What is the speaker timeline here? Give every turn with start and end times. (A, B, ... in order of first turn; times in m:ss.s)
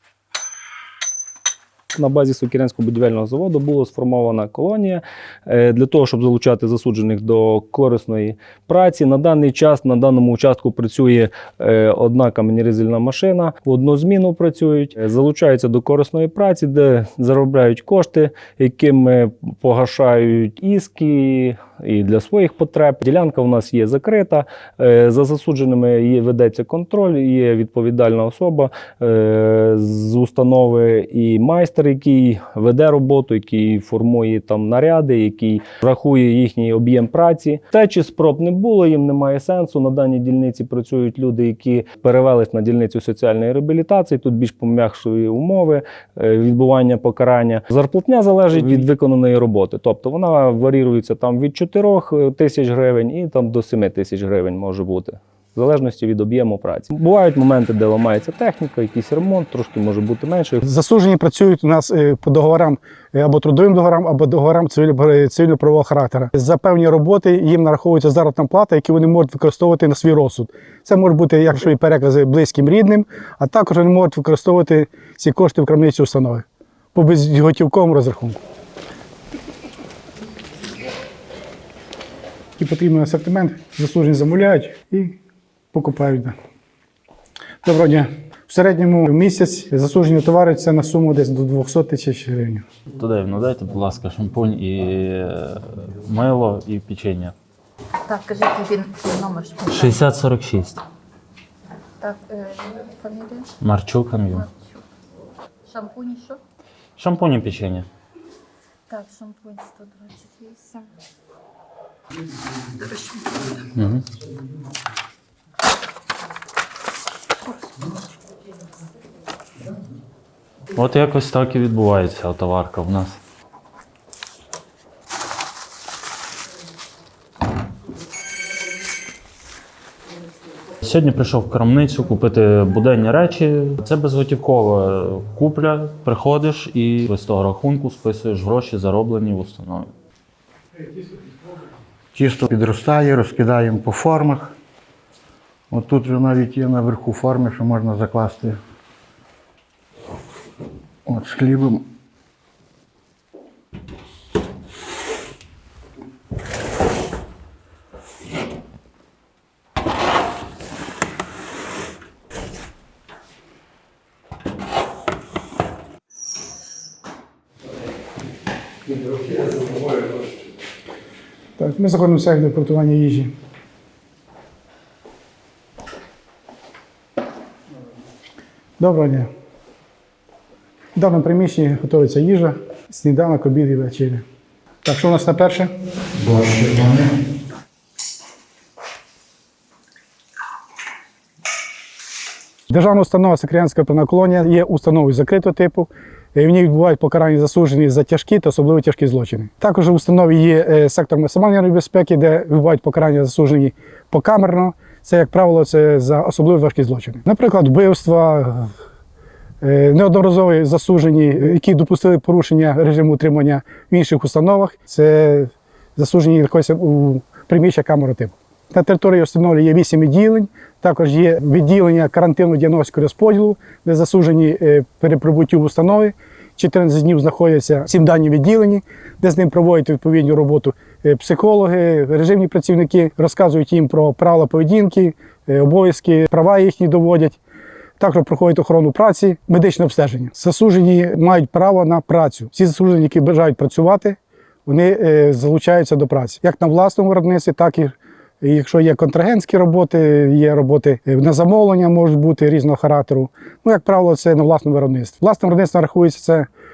0:01.9-1:00.6 A
1:00.6-1:18.4 B
1:22.6-1:25.2 B
1:25.7-1:26.3 B
1:27.6-1:32.6 B
1:33.0-1:37.3 C
1:38.0-1:40.0 D
1:39.6-1:40.8 C
1:42.0-1:43.5 D
1:43.6-1:44.5 C
1:44.4-1:44.8 D
1:45.6-1:46.4 D
1:47.0-1:47.9 C
1:48.9-1:50.9 D
1:52.8-1:53.3 D
1:53.8-1:54.0 C
2:00.7-2:03.2 C
2:10.8-2:19.9 C
2:22.1-2:24.5 E
2:25.7-2:28.6 E
2:31.0-2:31.8 E
2:51.6-2:53.3 B
2:58.8-2:59.3 B
3:00.9-3:04.2 B
3:04.8-3:05.7 B
3:06.2-3:07.1 E
3:12.7-3:28.7 B
3:29.6-3:57.4 B
3:58.0-4:16.5 B